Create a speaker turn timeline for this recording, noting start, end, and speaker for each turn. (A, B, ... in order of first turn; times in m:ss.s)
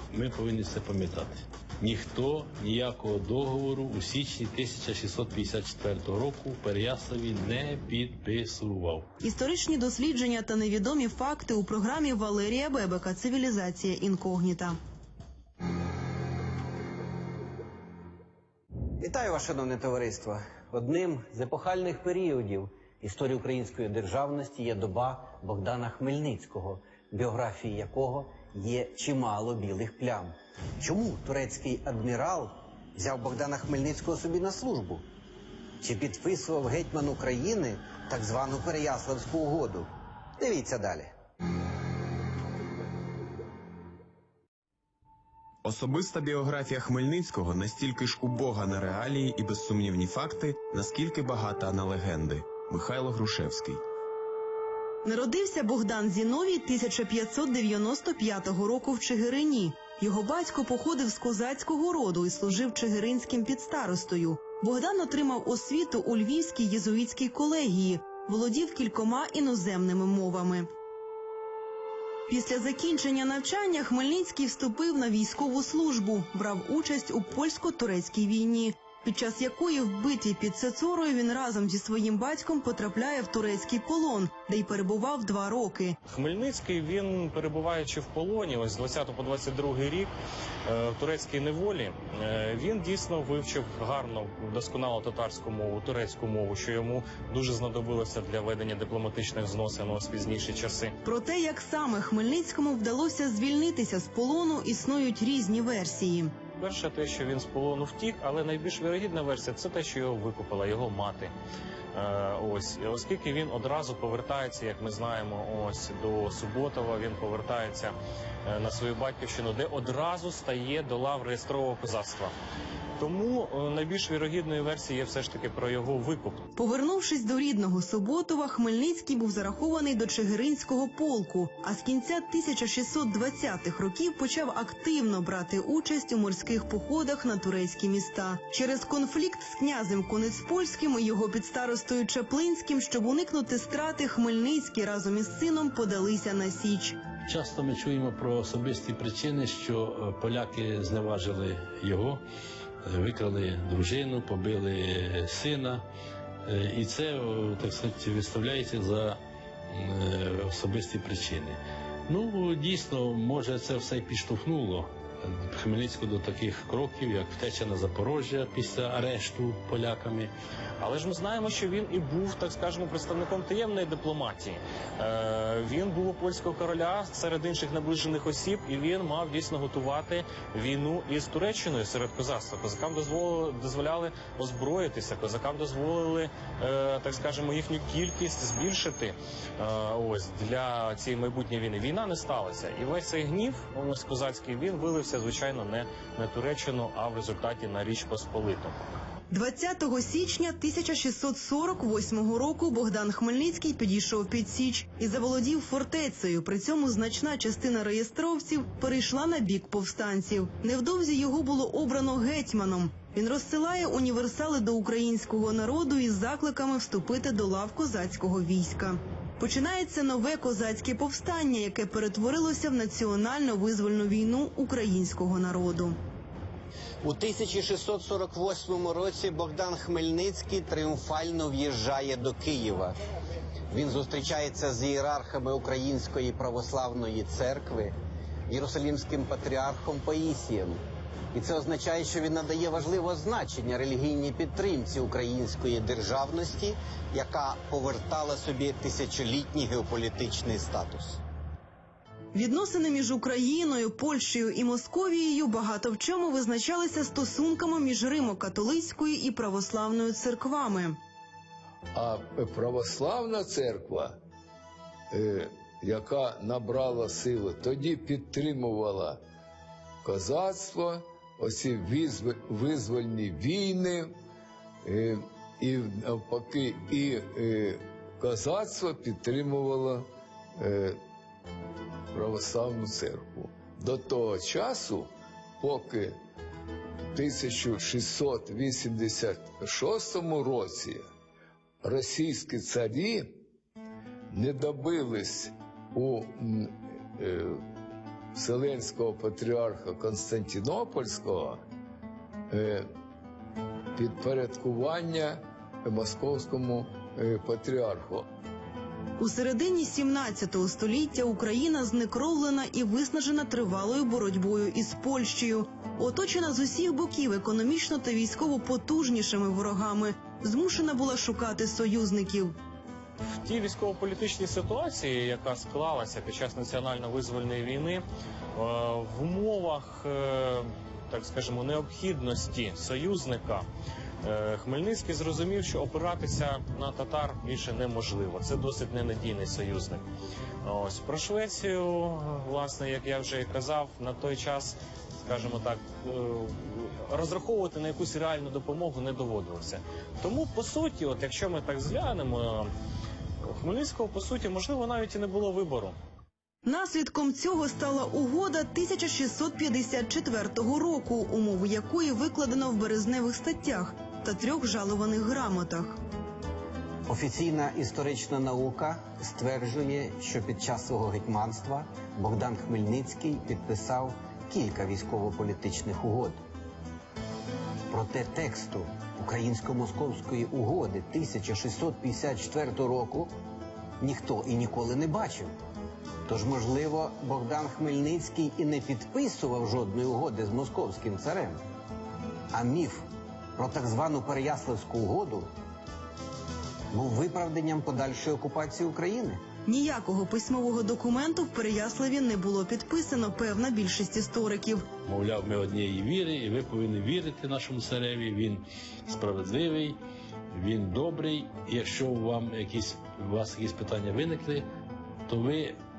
0:00.1-0:09.1 A
0:09.2-0:14.8 B
0:19.0-0:35.0 C
0:35.8-0:41.1 C
0:45.6-0:53.8 D
0:55.0-1:10.7 B
1:12.3-1:26.0 B
1:26.1-1:30.1 E
1:30.6-1:40.9 E
1:41.0-1:46.3 B
1:46.6-1:51.3 E
1:51.9-1:57.9 E
1:58.4-2:02.3 E
2:03.0-2:06.4 E
2:06.6-2:27.0 B
2:27.3-2:32.2 A
2:32.8-2:35.8 A
2:36.4-2:39.2 A
2:39.7-2:50.3 A
2:50.8-3:18.8 E
3:19.3-3:46.0 B
3:47.0-3:53.0 C
3:53.7-3:58.0 C
3:58.5-4:00.8 C
4:01.3-4:11.2 C
4:12.3-4:21.0 B
4:21.9-4:24.2 F
4:25.1-4:29.2 F
4:30.0-4:34.1 F
4:34.8-4:41.0 F
4:42.1-4:46.2 F
4:47.1-4:51.0 F
4:51.8-4:53.4 F
4:54.3-4:57.6 F
4:58.3-5:01.6 F
5:02.5-5:02.9 F
5:04.0-5:08.2 F
5:09.2-5:22.5 B
5:23.4-5:28.0 E
5:28.5-5:33.6 E
5:34.2-5:40.0 E
5:40.6-5:52.7 E
5:53.4-5:55.9 E
5:56.6-6:06.0 B
6:07.1-6:16.4 C
6:17.9-6:23.3 C
6:24.0-6:25.5 C
6:26.3-6:31.6 C
6:32.5-6:33.0 C
6:33.6-6:35.5 C
6:36.9-6:39.4 C
6:39.6-6:44.8 B
6:45.0-6:50.0 A
6:50.5-6:54.6 A
6:55.3-6:55.8 A